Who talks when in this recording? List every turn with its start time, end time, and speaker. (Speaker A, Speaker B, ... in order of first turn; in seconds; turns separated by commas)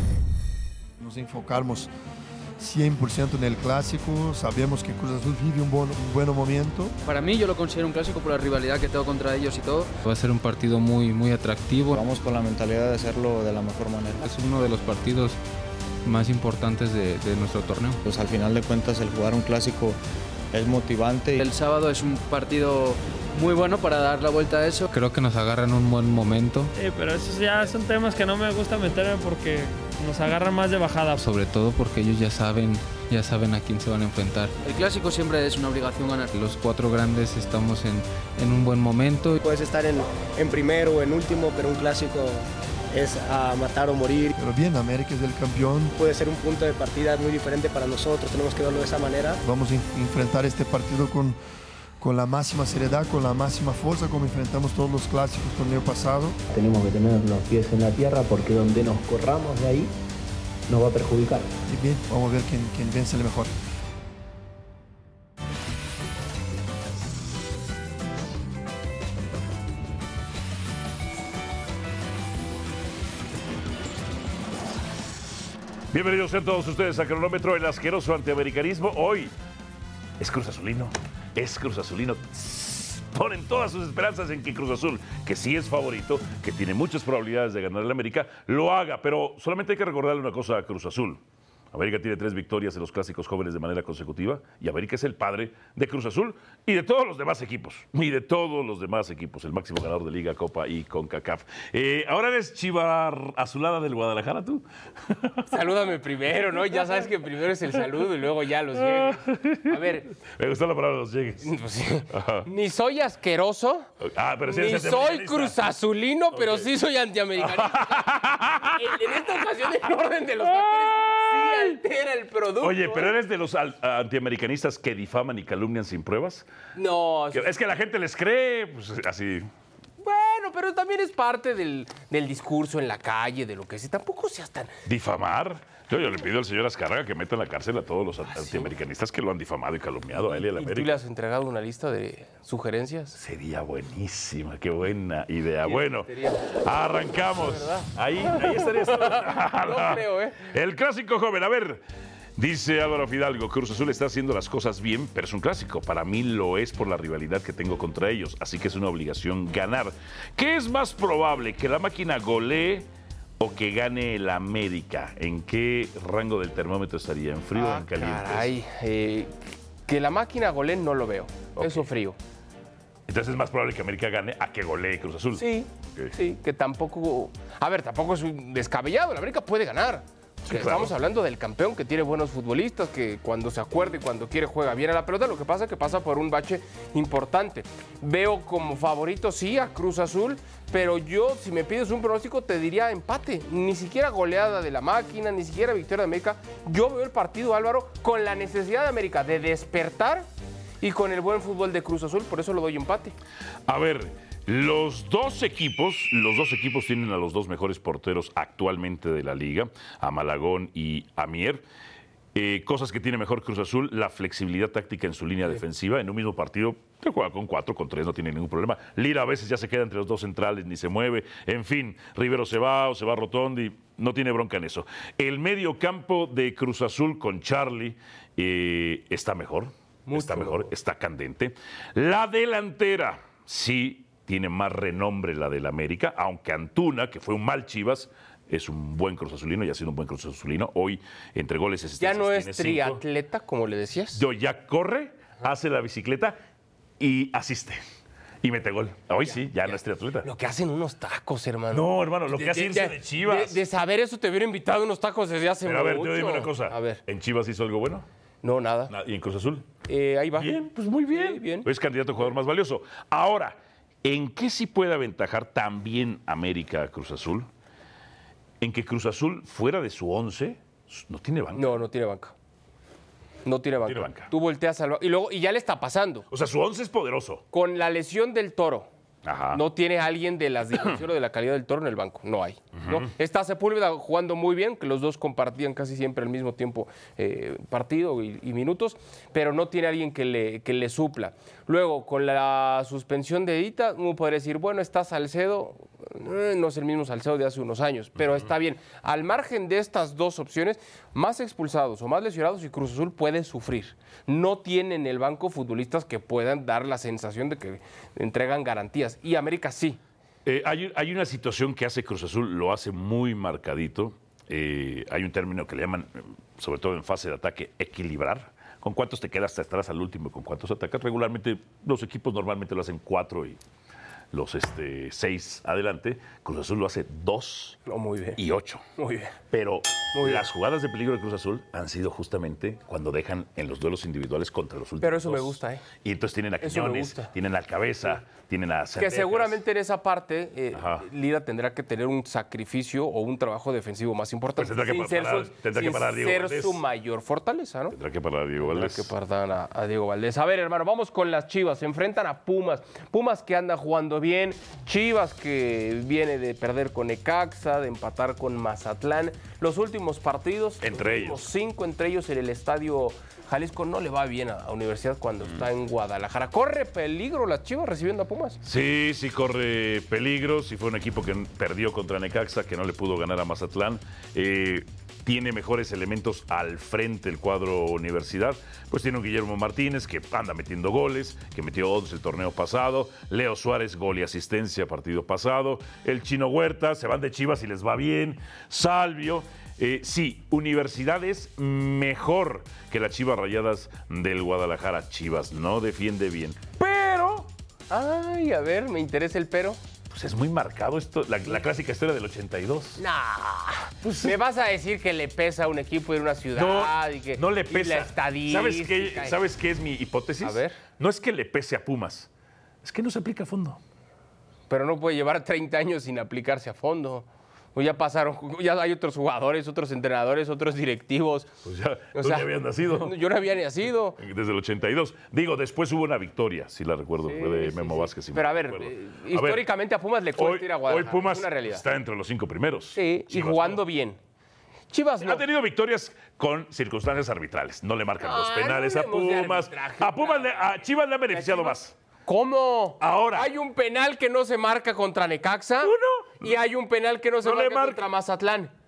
Speaker A: 1.0-1.9, Speaker A: 2.6-7.0, Speaker B: 7.0-9.9, Speaker C: 10.1-12.0, Speaker D: 12.0-14.3, Speaker C: 14.2-15.4, Speaker C: 16.1-18.0, Speaker D: 18.1-20.0, Speaker D: 20.5-21.4, Speaker B: 21.4-24.9, Speaker C: 24.9-26.7, Speaker E: 26.8-31.2, Speaker C: 31.2-34.5, Speaker B: 34.6-36.3, Speaker C: 36.3-39.4, Speaker F: 39.4-44.3, Speaker A: 44.4-46.0, Speaker F: 46.0-49.4, Speaker A: 49.4-51.4, Speaker A: 52.0-56.4, Speaker G: 56.5-59.9, Speaker G: 60.7-61.5, Speaker A: 61.7-63.5, Speaker H: 75.9-79.3, Speaker H: 80.2-91.2, Speaker H: 91.7-105.5, Speaker I: 105.5-110.1, Speaker H: 108.8-111.5, Speaker I: 111.4-113.9, Speaker H: 112.1-112.5, Speaker H: 114.0-115.6, Speaker I: 114.5-123.2, Speaker H: 116.3-116.7, Speaker H: 117.4-119.2, Speaker H: 120.4-121.8, Speaker H: 122.6-126.5, Speaker I: 126.8-127.5, Speaker H: 127.3-129.5, Speaker I: 130.0-134.7, Speaker H: 134.9-140.9, Speaker I: 138.3-138.7, Speaker I: 140.2-143.2, Speaker H: 143.2-151.8, Speaker I: 145.7-146.4, Speaker I: 147.4-150.4, Speaker H: 152.4-162.9, Speaker H: 163.4-168.5, Speaker I: 167.5-169.3, Speaker I: 169.9-172.2, Speaker H: 171.6-171.9, Speaker H: 173.1-176.2, Speaker I: 175.4-200.3, Speaker H: 180.5-180.9, Speaker I: 200.8-203.2, Speaker H: 203.7-211.6, Speaker H: 212.3-243.0, Speaker I: 230.1-230.7, Speaker I: 242.0-244.2, Speaker H: 244.2-246.4, Speaker H: 247.0-247.8, Speaker H: 248.4-250.3, Speaker I: 249.2-257.0, Speaker H: 251.7-253.6, Speaker H: 255.7-258.1, Speaker I: 258.4-258.9, Speaker H: 258.9-259.7, Speaker I: 259.9-260.5, Speaker H: 260.4-267.5, Speaker I: 261.1-261.7, Speaker H: 268.6-271.8, Speaker I: 271.5-272.3, Speaker I: 273.4-276.3, Speaker H: 273.9-274.3, Speaker H: 276.3-277.4, Speaker I: 277.5-278.9, Speaker H: 279.2-279.6, Speaker I: 279.5-310.0, Speaker H: 282.8-283.1, Speaker H: 310.5-323.6, Speaker H: 324.3-327.8, Speaker I: 327.9-328.4, Speaker H: 328.4-328.8, Speaker I: 329.0-329.4, Speaker H: 329.5-339.6, Speaker I: 330.1-330.5, Speaker I: 335.0-335.8, Speaker I: 336.6-337.3, Speaker I: 339.0-348.0, Speaker H: 340.7-341.1, Speaker H: 344.6-346.8, Speaker H: 347.9-349.1, Speaker I: 348.6-368.6, Speaker H: 360.8-361.4, Speaker H: 368.6-397.5, Speaker I: 397.9-399.8, Speaker H: 400.1-403.0, Speaker I: 403.0-409.4, Speaker H: 404.0-404.4, Speaker H: 406.6-412.3, Speaker I: 410.4-410.8, Speaker H: 412.8-413.8, Speaker I: 414.7-421.5, Speaker H: 421.6-423.2, Speaker I: 422.1-424.2, Speaker H: 424.2-429.7, Speaker I: 427.2-431.8, Speaker H: 430.4-433.8, Speaker I: 432.9-434.2, Speaker I: 434.9-435.4, Speaker H: 435.2-441.9, Speaker I: 438.2-440.7, Speaker I: 441.3-448.7, Speaker H: 443.0-443.5, Speaker H: 445.8-446.5, Speaker H: 447.4-448.1